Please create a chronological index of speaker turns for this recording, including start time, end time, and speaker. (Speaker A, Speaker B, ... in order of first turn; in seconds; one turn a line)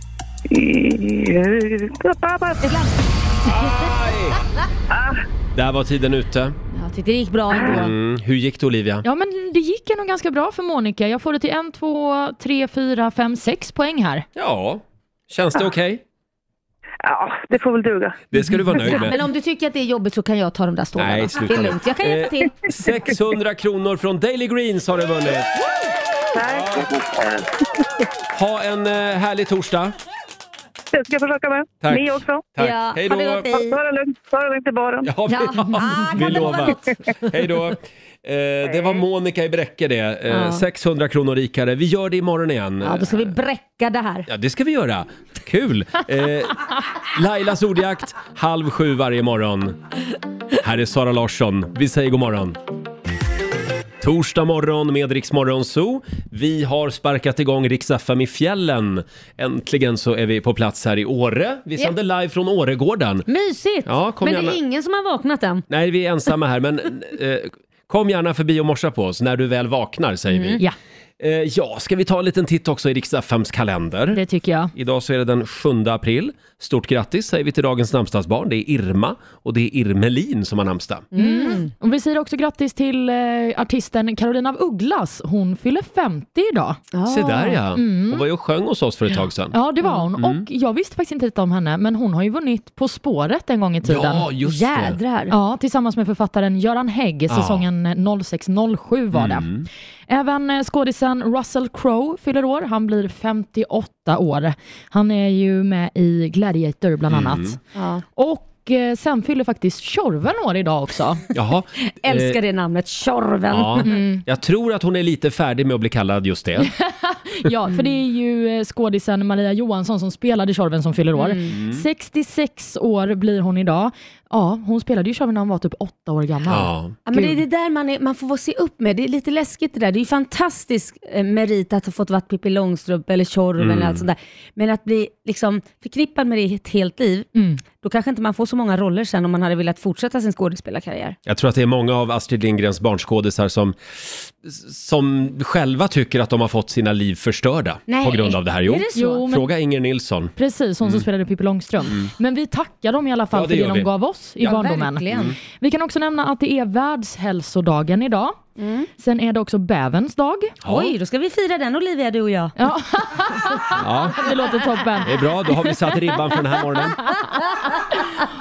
Speaker A: 0.5-2.7
Speaker B: 2.6-4.0
Speaker C: 3.4-4.4
Speaker A: 4.9-5.2
Speaker C: 5.5-6.5
Speaker B: 6.7-7.9
Speaker C: 7.5-9.0
Speaker D: 9.0-14.2
Speaker C: 14.3-16.0
Speaker A: 17.0-18.2
Speaker C: 18.3-19.2
Speaker B: 18.9-22.5
Speaker C: 20.9-25.5
Speaker A: 26.3-27.0
Speaker C: 26.4-26.9
Speaker C: 28.3-29.9
Speaker A: 30.9-32.5
Speaker C: 31.8-33.5
Speaker B: 32.6-33.8
Speaker A: 33.5-35.1
Speaker C: 35.0-43.4
Speaker B: 35.3-36.9
Speaker A: 38.7-39.0
Speaker B: 40.3-40.6
Speaker B: 42.8-44.3
Speaker C: 44.3-49.8
Speaker C: 50.6-52.6
Speaker C: 54.0-63.3
Speaker B: 63.3-65.6
Speaker C: 63.9-64.6
Speaker C: 65.7-70.6
Speaker B: 70.3-70.6
Speaker C: 71.2-74.2
Speaker D: 74.1-74.7
Speaker C: 74.7-81.1
Speaker B: 81.1-81.7
Speaker D: 81.1-86.9
Speaker B: 86.9-87.6
Speaker C: 87.0-89.5
Speaker D: 87.7-88.2
Speaker D: 89.5-94.3
Speaker C: 90.2-90.4
Speaker C: 93.8-95.0
Speaker B: 94.4-95.3
Speaker D: 95.3-99.5
Speaker C: 97.3-97.7
Speaker C: 99.1-99.7
Speaker D: 100.1-107.6
Speaker C: 107.1-107.6
Speaker B: 107.7-108.0
Speaker D: 108.2-111.2
Speaker C: 111.3-112.4
Speaker B: 112.0-114.0
Speaker C: 113.5-116.7
Speaker D: 113.8-114.2
Speaker D: 116.6-127.4
Speaker B: 121.1-121.5
Speaker C: 121.5-121.8
Speaker C: 126.5-127.0
Speaker B: 127.0-137.3
Speaker C: 133.6-134.0
Speaker D: 137.3-137.6
Speaker B: 137.8-141.2
Speaker C: 141.2-151.0
Speaker B: 147.9-149.3
Speaker D: 148.9-149.4
Speaker D: 150.4-158.4
Speaker C: 153.3-153.9
Speaker B: 154.4-155.3
Speaker C: 155.1-155.4
Speaker B: 158.6-158.9
Speaker D: 159.0-160.6
Speaker C: 160.6-160.9
Speaker B: 160.7-162.5
Speaker D: 162.6-165.1
Speaker C: 163.7-164.3
Speaker C: 165.0-167.1